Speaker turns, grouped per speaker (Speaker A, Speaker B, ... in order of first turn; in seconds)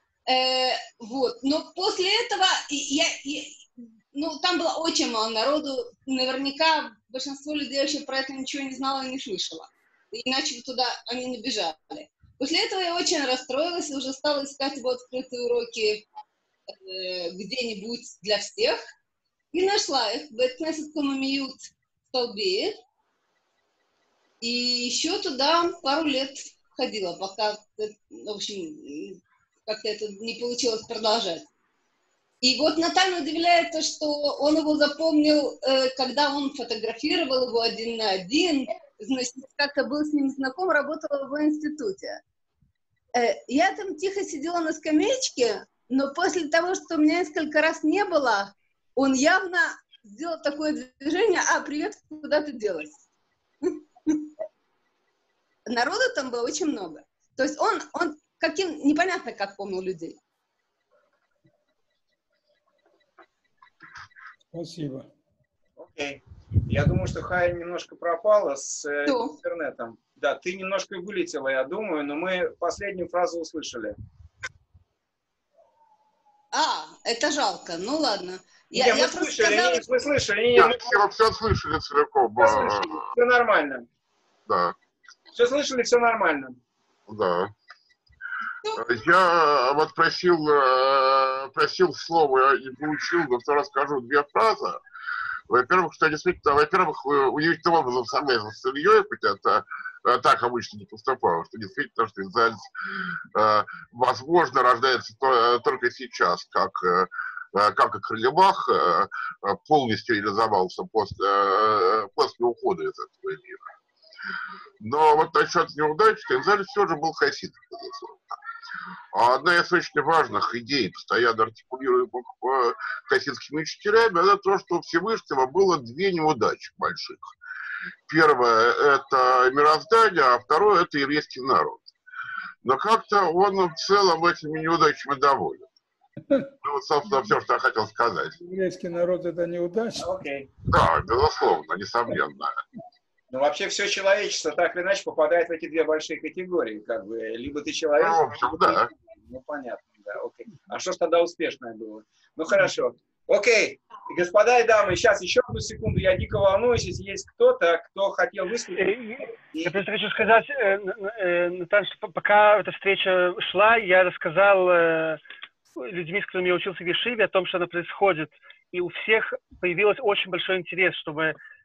Speaker A: 0.3-16.0, 16.8-18.8, 19.5-22.8, 24.4-31.5, 32.4-42.2, 43.1-53.0, 53.6-54.2, 55.7-60.2, 69.1-69.3, 76.5-79.9
Speaker B: 64.5-65.1, 138.4-140.1
Speaker C: 65.8-73.9, 78.7-81.0, 82.4-83.9, 85.3-86.5, 140.0-140.5, 143.3-158.9
Speaker D: 80.5-83.0, 84.5-84.7, 87.1-87.5, 88.8-94.8, 95.5-102.7, 103.3-113.6, 114.8-118.4, 119.1-127.3, 128.1-131.9, 132.7-135.7, 136.6-138.4, 140.7-142.6, 148.0-148.9
Speaker E: 158.7-165.2, 165.8-171.4